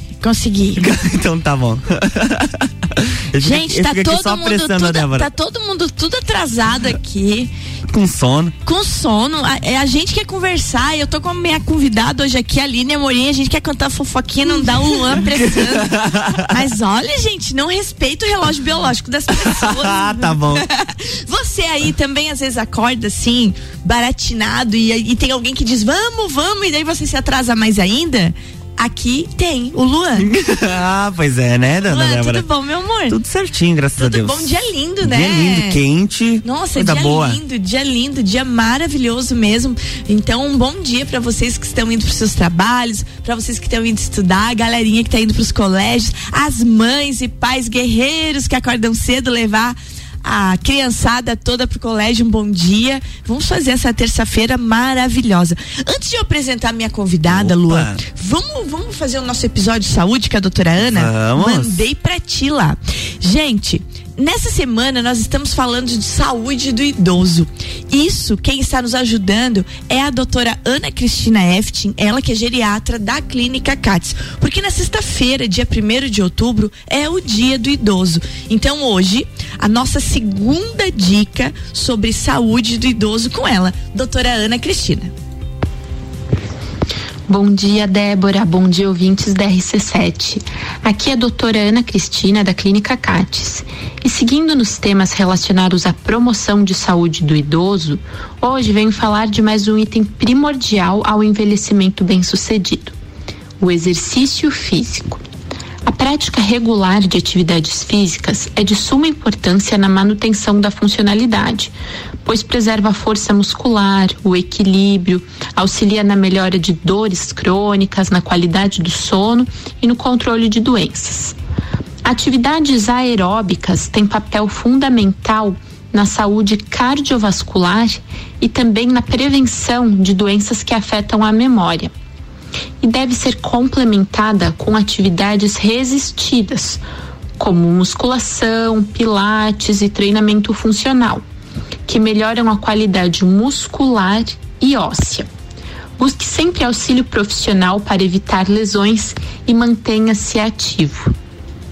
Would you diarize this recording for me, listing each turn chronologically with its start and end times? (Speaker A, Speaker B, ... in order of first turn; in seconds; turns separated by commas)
Speaker A: 0.2-0.9, Speaker B: 0.8-5.3, Speaker A: 3.4-7.5, Speaker B: 7.9-8.5, Speaker A: 8.6-15.9, Speaker B: 15.3-16.4, Speaker A: 16.5-30.3, Speaker B: 19.4-20.6, Speaker B: 30.2-32.5, Speaker A: 31.9-33.2, Speaker B: 33.1-37.4, Speaker A: 34.0-35.8, Speaker A: 36.4-85.1, Speaker B: 57.3-58.0, Speaker B: 60.8-61.8, Speaker C: 87.3-103.0, Speaker C: 103.6-105.2, Speaker C: 105.8-111.7, Speaker C: 112.2-121.3, Speaker C: 122.0-131.9, Speaker C: 132.8-136.8, Speaker C: 137.4-141.2, Speaker C: 141.9-145.3, Speaker C: 146.0-151.1